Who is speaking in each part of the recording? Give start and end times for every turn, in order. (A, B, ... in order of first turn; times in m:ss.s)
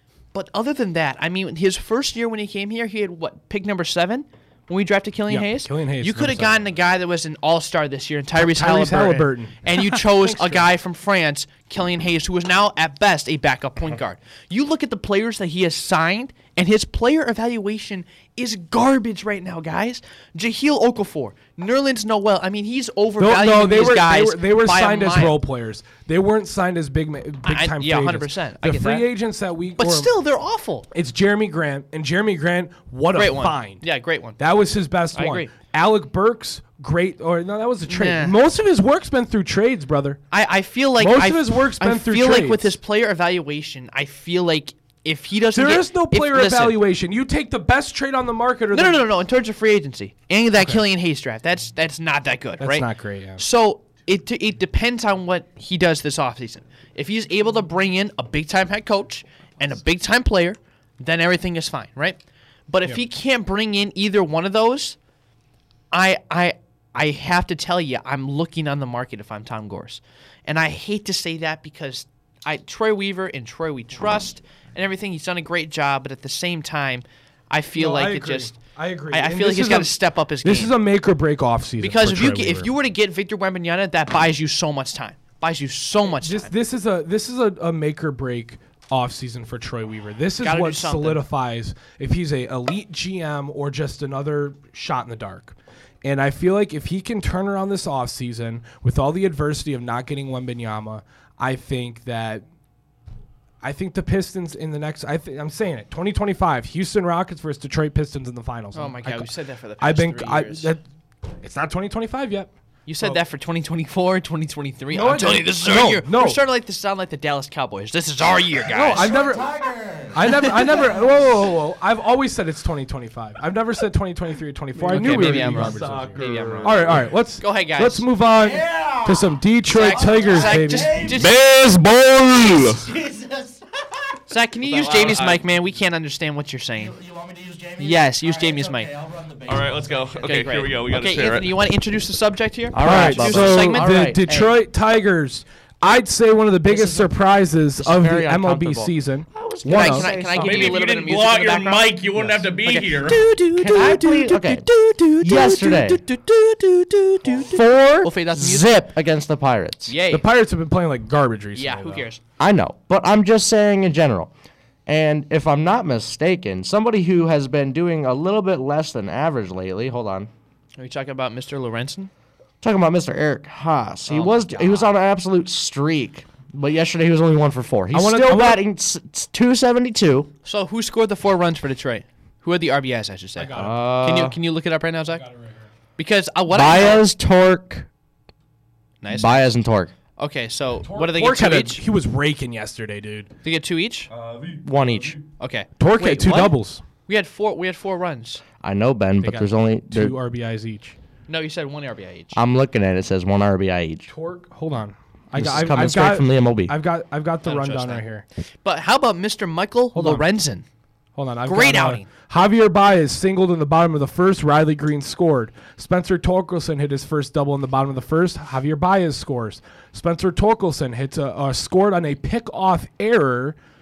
0:00.3-0:25.4 A
0:05.3-0:06.7 B
0:08.3-0:10.7 B
0:23.2-0:30.1 B
0:27.4-0:29.1 A
0:29.8-0:30.9 A
0:30.9-0:33.8 B
0:33.1-0:34.4 A
0:34.4-0:40.2 B
0:35.1-0:35.5 A
0:37.9-0:38.4 A
0:40.3-0:46.8 A
0:41.0-0:42.8 B
0:45.5-0:49.0 B
0:48.7-1:05.0 A
0:52.6-0:53.4 B
1:05.9-1:18.6 A
1:17.7-1:22.7 B
1:19.1-1:20.7 A
1:21.8-1:26.5 A
1:26.2-1:42.4 B
1:30.4-1:31.2 A
1:43.6-1:50.8 B
1:48.7-1:50.7 A
1:51.4-1:53.2 B
1:52.9-1:59.1 A
1:54.9-1:56.4 B
1:58.7-1:59.6 B
1:59.0-2:01.3 C
2:00.1-2:11.0 B
2:04.8-2:07.1 D
2:04.8-2:08.1 A
2:08.3-2:11.2 C
2:09.7-2:11.4 A
2:10.9-2:12.9 D
2:12.5-2:13.6 C
2:14.3-2:16.9 A
2:14.6-2:15.4 D
2:16.8-2:20.5 C
2:17.8-2:18.9 A
2:19.4-2:21.6 D
2:20.2-2:24.1 A
2:22.7-2:24.5 E
2:22.8-2:30.1 B
2:26.6-2:27.1 E
2:27.8-2:30.8 E
2:29.7-2:38.8 A
2:30.3-2:33.3 D
2:33.5-2:34.7 E
2:35.2-2:36.0 E
2:37.4-2:40.0 E
2:39.9-2:40.2 A
2:40.1-2:42.1 B
2:41.5-2:42.2 A
2:42.4-2:44.3 E
2:44.8-2:50.3 E
2:50.8-2:52.1 A
2:52.6-3:00.3 E
2:54.1-2:54.9 A
2:57.9-2:58.6 B
3:00.4-3:05.2 A
3:03.4-3:04.3 B
3:03.6-3:04.4 E
3:05.1-3:05.7 B
3:06.0-3:07.0 A
3:06.5-3:07.9 E
3:09.0-3:09.5 A
3:09.1-3:09.9 E
3:10.2-3:11.8 A
3:10.8-3:13.3 B
3:13.4-3:14.1 A
3:14.1-3:15.2 D
3:14.6-3:15.2 E
3:15.4-3:18.4 A
3:15.8-3:16.8 B
3:18.6-3:20.2 E
3:19.2-3:21.0 B
3:21.3-3:22.4 A
3:22.3-3:24.1 E
3:24.1-3:28.2 B
3:25.3-3:26.7 E
3:27.4-3:28.0 A
3:28.6-3:30.6 A
3:29.9-3:30.3 B
3:31.2-3:43.6 B
3:31.4-3:32.1 A